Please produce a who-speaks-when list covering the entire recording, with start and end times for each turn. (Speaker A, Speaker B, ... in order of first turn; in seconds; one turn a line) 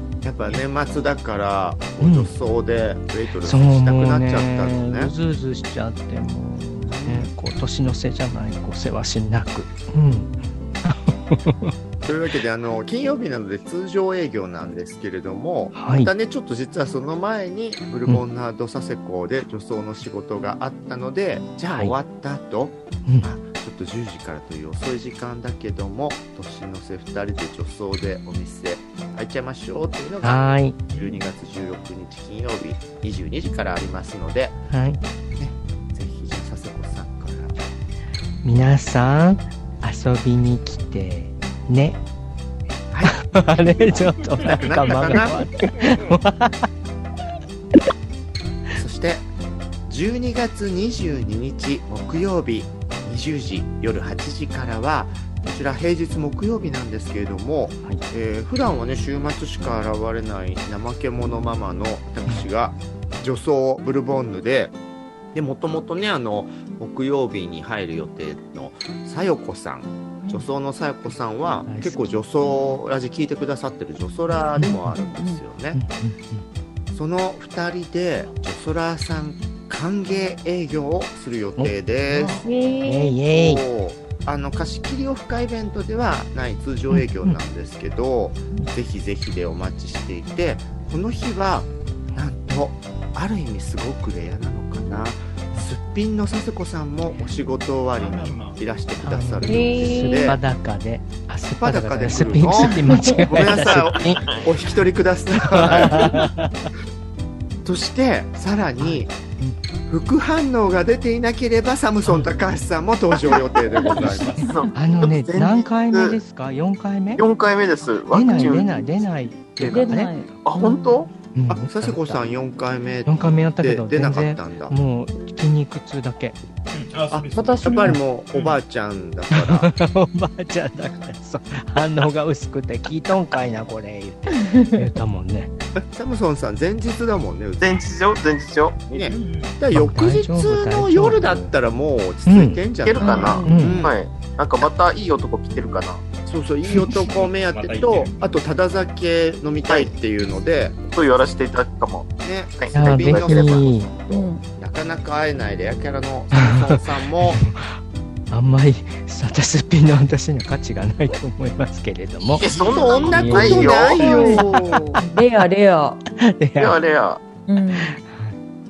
Speaker A: 0.2-5.1
Speaker B: 2.0-2.3
Speaker B: 3.4-11.7
Speaker A: 6.8-7.3
Speaker A: 12.0-34.6
Speaker B: 15.7-16.1
Speaker B: 23.0-23.3
Speaker B: 30.2-30.9
Speaker C: 30.9-31.2
Speaker B: 34.7-35.0
Speaker A: 35.4-37.6
Speaker B: 38.4-42.0
Speaker B: 43.0-46.7
Speaker C: 44.2-45.3
Speaker A: 44.4-45.5
Speaker A: 48.7-49.2
Speaker A: 49.9-64.7
Speaker A: 65.3-75.8
Speaker B: 71.7-72.2
Speaker B: 74.5-74.9
Speaker C: 74.5-75.2
Speaker D: 75.0-75.4
Speaker B: 75.7-76.4
Speaker A: 76.9-82.5
Speaker B: 81.6-83.6
Speaker D: 82.4-83.2
Speaker A: 83.3-100.4
Speaker B: 86.9-87.4
Speaker C: 97.9-98.6
Speaker B: 99.0-104.5
Speaker D: 99.4-100.4
Speaker A: 101.6-106.2
Speaker D: 102.7-103.3
Speaker B: 105.4-106.7
Speaker A: 107.6-109.1
Speaker B: 108.8-109.6
Speaker A: 109.9-114.4
Speaker B: 112.0-112.3
Speaker E: 113.3-116.2
Speaker B: 114.2-117.2
Speaker E: 117.2-121.1
Speaker B: 118.1-120.3
Speaker D: 119.6-121.0
Speaker B: 121.3-122.2
Speaker A: 121.5-124.8
Speaker B: 123.0-126.3
Speaker C: 126.7-128.6
Speaker A: 127.1-129.7
Speaker D: 127.4-128.0
Speaker B: 127.7-128.0
Speaker B: 129.3-135.5
Speaker D: 134.4-134.9
Speaker A: 135.9-137.9
Speaker E: 137.6-139.2
Speaker A: 138.9-143.9
Speaker C: 139.1-139.6
Speaker B: 139.7-141.5
Speaker B: 142.2-142.6
Speaker E: 142.8-146.0
Speaker D: 143.0-143.8
Speaker C: 143.0-143.3
Speaker B: 143.4-143.8
Speaker A: 146.2-150.8
Speaker C: 147.1-148.3
Speaker E: 149.7-149.9
Speaker E: 150.8-153.7
Speaker A: 152.2-153.7
Speaker B: 152.7-153.9
Speaker D: 154.1-154.4
Speaker A: 154.6-157.4
Speaker B: 156.3-157.7
Speaker B: 158.3-162.5
Speaker E: 162.2-164.4
Speaker A: 162.4-165.0
Speaker C: 162.5-163.7
Speaker D: 163.1-164.4
Speaker B: 163.1-165.5
Speaker D: 165.1-166.0
Speaker B: 166.2-166.8
Speaker E: 166.6-167.2
Speaker D: 167.5-167.9
Speaker B: 167.6-168.3